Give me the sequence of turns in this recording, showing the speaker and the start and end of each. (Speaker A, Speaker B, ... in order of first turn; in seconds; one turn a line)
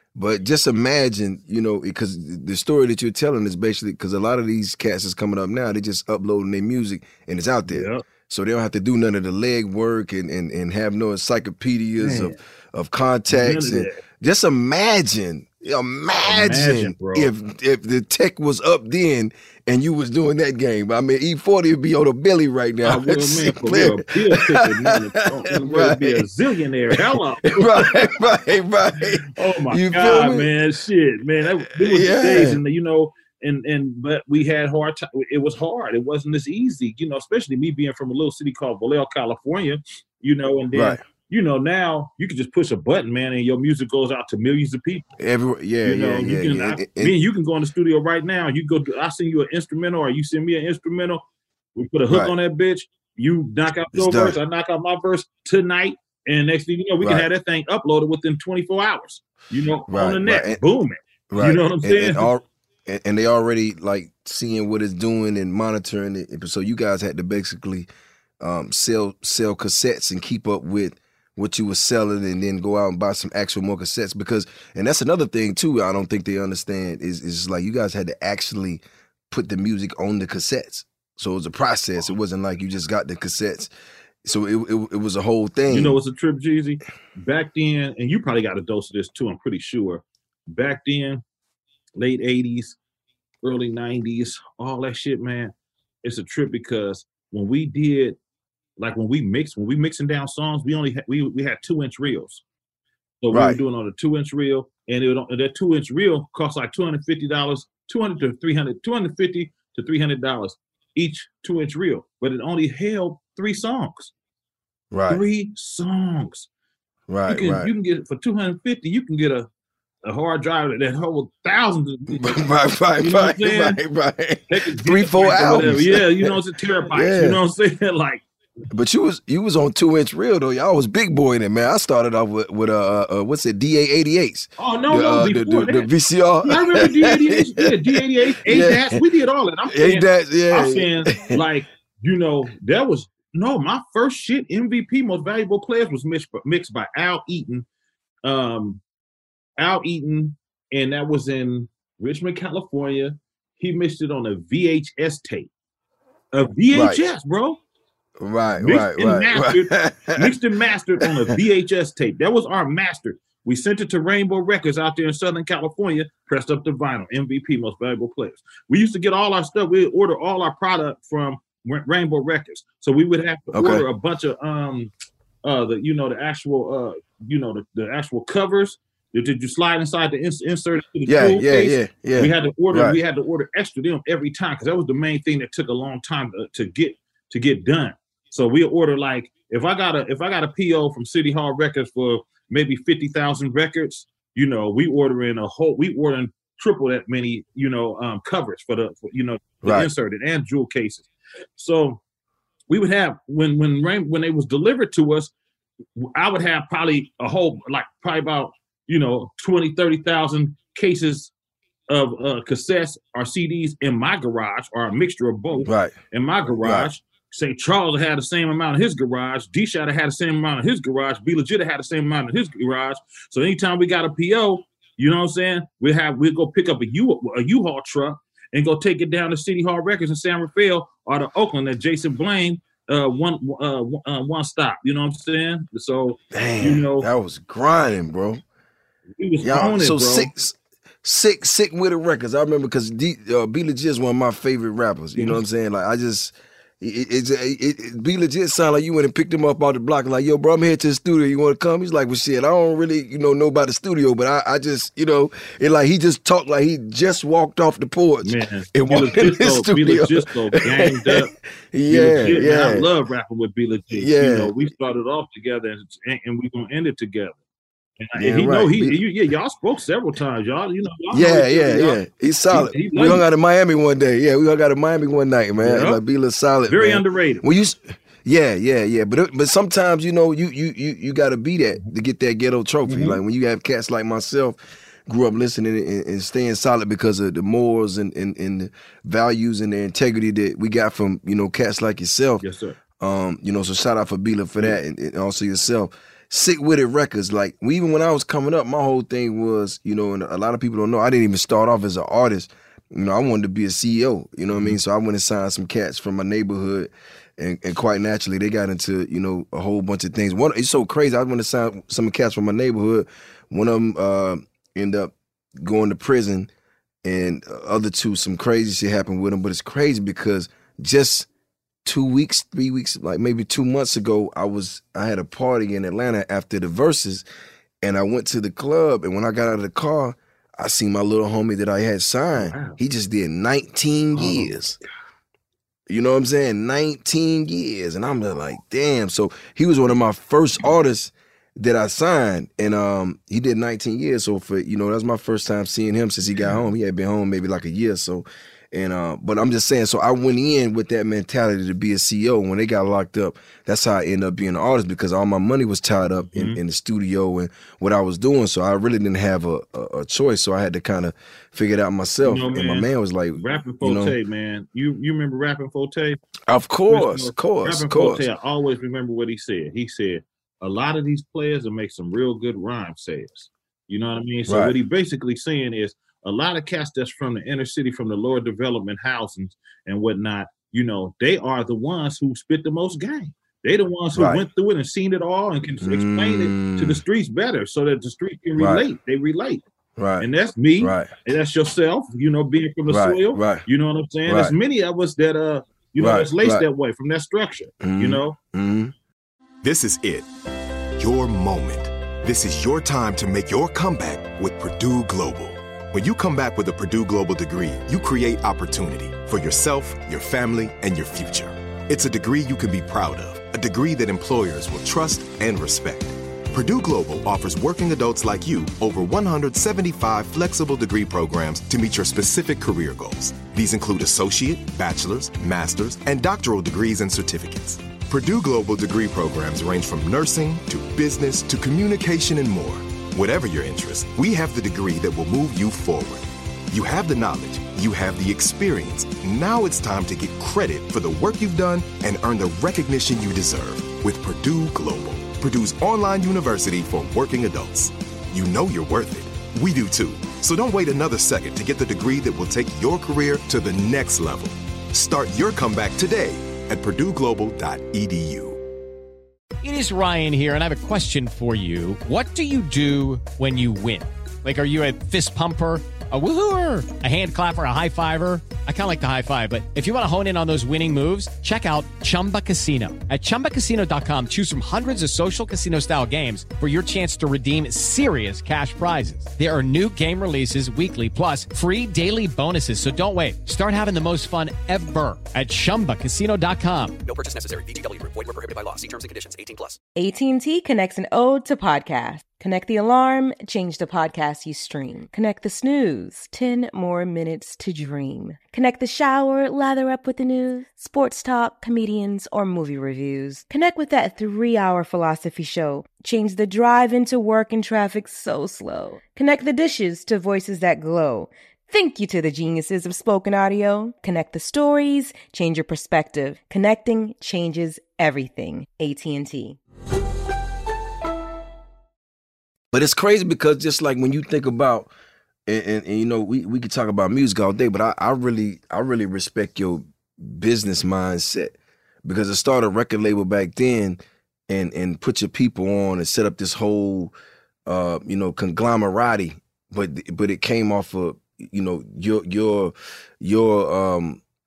Speaker A: 0.1-26.3
Speaker B: 7.7-8.0
Speaker B: 12.0-12.4
Speaker B: 13.3-14.0
Speaker B: 16.3-17.3
Speaker B: 22.8-28.3
Speaker A: 26.9-30.5
Speaker B: 29.3-45.1
Speaker A: 31.8-32.6
Speaker A: 40.7-41.0
Speaker A: 45.2-47.2
Speaker B: 45.8-51.2
Speaker B: 51.8-62.3
Speaker A: 52.1-52.3
Speaker A: 53.9-54.4
Speaker A: 57.0-57.3
Speaker A: 59.9-60.6
Speaker A: 61.3-67.9
Speaker A: 68.4-83.7
Speaker A: 84.2-86.0
Speaker B: 85.7-91.2
Speaker B: 92.0-92.8
Speaker B: 93.4-98.2
Speaker B: 98.8-102.4
Speaker B: 103.2-114.1
Speaker A: 103.3-103.6
Speaker A: 114.9-115.2
Speaker B: 115.1-116.5
Speaker A: 117.1-117.7
Speaker B: 117.3-119.5
Speaker B: 120.0-122.4
Speaker A: 122.1-126.4
Speaker B: 123.0-123.8
Speaker B: 124.5-128.2
Speaker A: 126.9-127.4
Speaker A: 128.7-139.0
Speaker B: 134.6-135.9
Speaker B: 136.4-147.7
Speaker A: 139.7-141.4
Speaker B: 148.2-148.8
Speaker B: 149.6-155.5
Speaker B: 156.3-157.6
Speaker A: 156.7-157.0
Speaker A: 158.2-160.4
Speaker B: 158.6-174.9
Speaker A: 161.0-161.3
Speaker A: 173.5-173.8
Speaker B: 175.4-202.0
Speaker A: 181.1-183.0
Speaker A: 199.6-199.9
Speaker B: 202.7-205.3
Speaker B: 206.0-211.3
Speaker B: 211.9-237.1
Speaker A: 215.6-215.9
Speaker A: 216.6-216.9
Speaker A: 236.3-238.4
Speaker B: 239.2-240.3
Speaker A: 239.4-262.9
Speaker B: 258.2-261.3
Speaker B: 261.9-267.4
Speaker A: 263.9-264.5
Speaker B: 268.0-273.2
Speaker A: 268.2-269.0
Speaker A: 271.1-292.4
Speaker B: 275.6-276.0
Speaker B: 276.7-277.4
Speaker B: 282.9-283.2
Speaker B: 292.4-292.8
Speaker A: 293.0-316.5
Speaker B: 304.5-304.8
Speaker A: 317.0-321.3
Speaker A: 321.9-327.2
Speaker A: 327.8-334.8
Speaker B: 332.4-332.8
Speaker B: 334.1-334.6
Speaker A: 335.9-364.1
Speaker B: 356.3-356.6
Speaker B: 362.2-366.2
Speaker A: 366.5-368.3
Speaker B: 366.9-389.6
Speaker A: 374.5-374.8
Speaker A: 384.1-384.4
Speaker A: 385.8-387.0
Speaker A: 388.6-388.8
Speaker A: 390.0-390.3
Speaker B: 390.2-398.4
Speaker A: 390.8-391.1
Speaker A: 392.9-393.6
Speaker A: 394.3-394.5
Speaker A: 396.0-396.6
Speaker A: 397.8-398.9
Speaker C: 399.6-400.3
Speaker C: 401.0-458.6
Speaker D: 459.6-487.0
Speaker E: 487.1-489.8
Speaker F: 490.0-519.6
Speaker A: 522.7-524.9
Speaker A: 525.5-537.1
Speaker A: 537.7-544.2